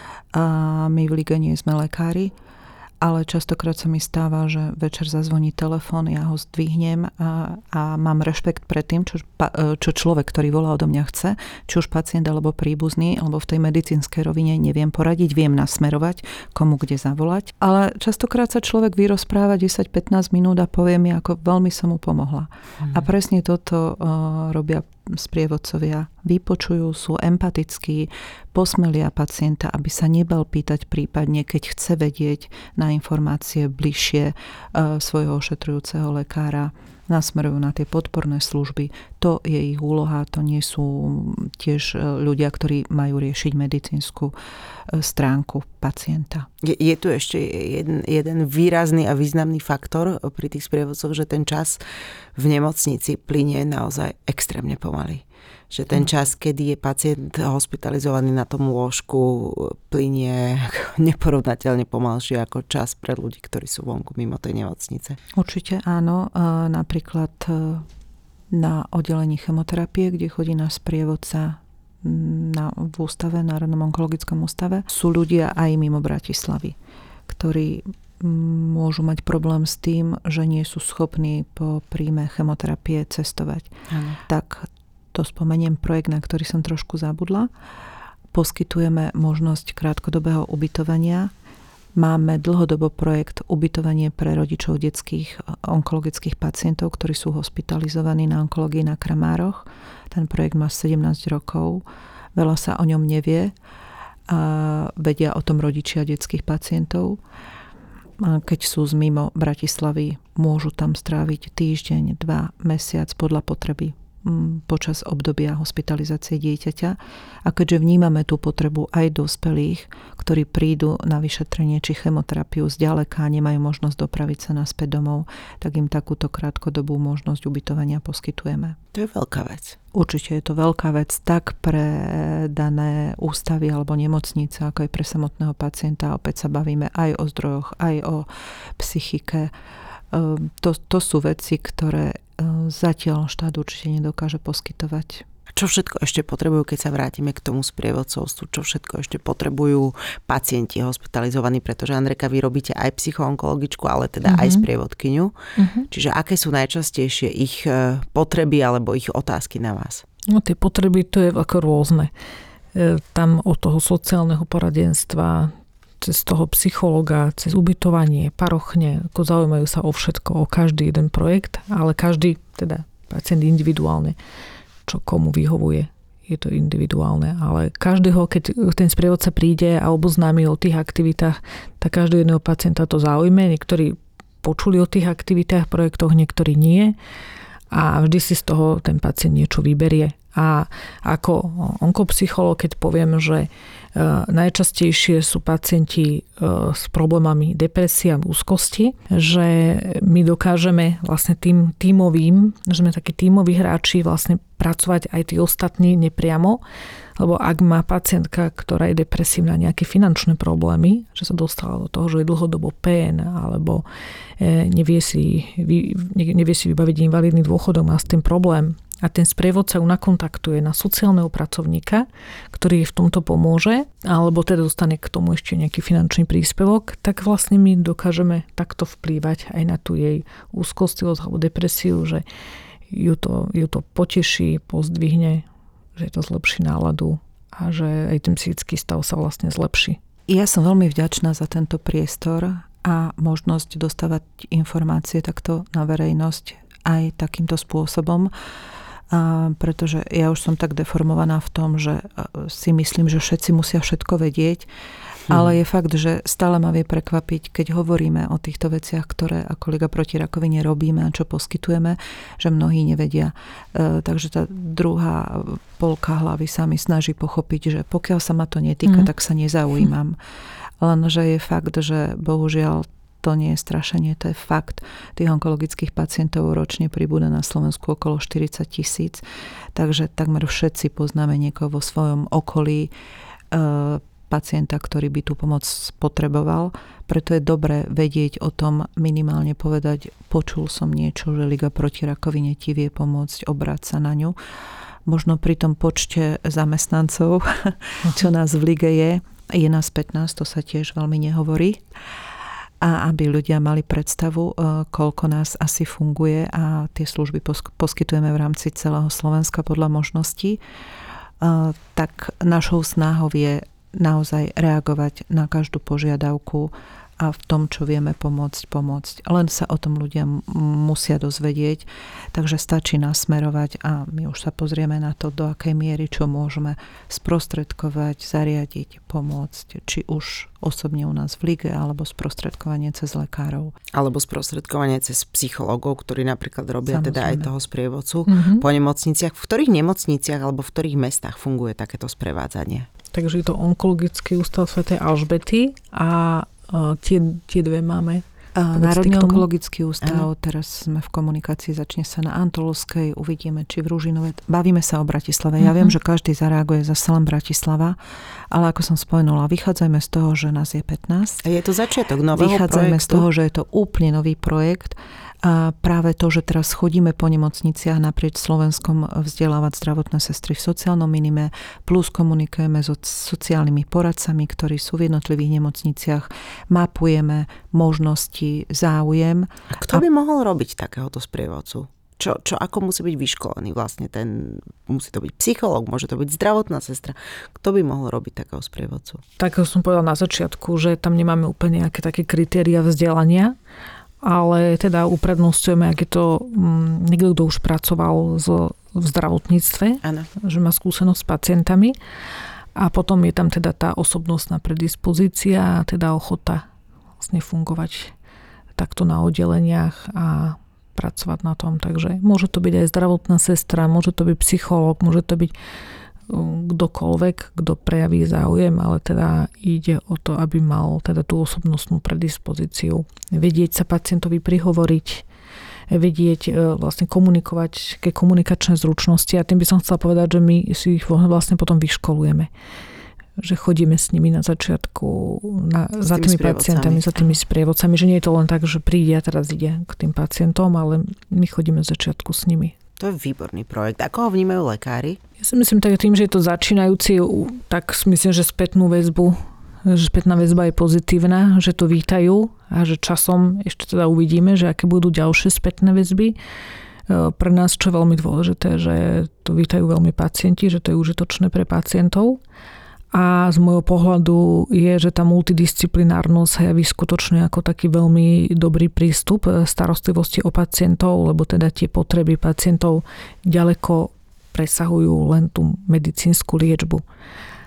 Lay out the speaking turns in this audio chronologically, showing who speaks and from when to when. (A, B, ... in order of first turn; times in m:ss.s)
0:00.3-0:02.3 A
0:03.0-0:44.3 A
0:44.9-0:46.5 A
0:46.6-0:51.8 B
0:52.4-1:05.2 B
1:05.3-1:07.9 A
1:08.5-1:16.8 A
1:17.3-1:23.7 A
1:23.9-1:24.2 B
1:24.3-1:27.5 A
1:28.3-1:31.3 A
1:32.0-1:41.8 A
1:42.4-1:43.6 A
1:44.3-1:47.2 A
1:48.2-2:08.8 A
2:08.9-2:09.8 B
2:09.9-2:19.5 A
2:20.1-2:25.2 A
2:25.6-2:35.4 B
2:34.2-2:34.6 C
2:35.6-2:35.9 C
2:35.9-2:40.0 B
2:40.3-2:42.1 C
2:42.7-2:54.2 C
2:54.9-3:07.0 C
3:07.7-3:26.6 C
3:27.2-3:33.8 C
3:34.4-3:52.2 C
3:52.9-4:00.0 C
4:00.3-4:08.3 A
4:09.1-4:14.7 A
4:15.3-4:30.2 A
4:30.8-4:39.2 A
4:39.8-4:42.9 A
4:43.5-4:54.4 A
4:55.1-5:01.8 A
5:02.8-5:10.6 A
5:11.4-5:33.8 A
5:33.9-5:42.9 B
5:36.9-5:37.5 A
5:38.3-5:38.6 C
5:43.1-5:49.5 C
5:48.6-5:58.0 A
5:55.6-5:55.9 C
5:58.5-6:01.4 A
6:01.4-6:03.3 B
6:02.3-6:20.0 A
6:19.7-6:29.2 B
6:29.4-6:33.6 C
6:34.2-6:42.0 C
6:42.8-6:46.6 C
6:47.2-6:48.1 C
6:48.8-6:55.5 C
6:56.3-7:05.2 C
7:05.9-7:12.5 C
7:13.4-7:22.8 C
7:16.1-7:17.3 B
7:23.0-7:25.2 B
7:25.4-7:36.4 C
7:37.1-7:42.4 C
7:43.1-7:57.0 C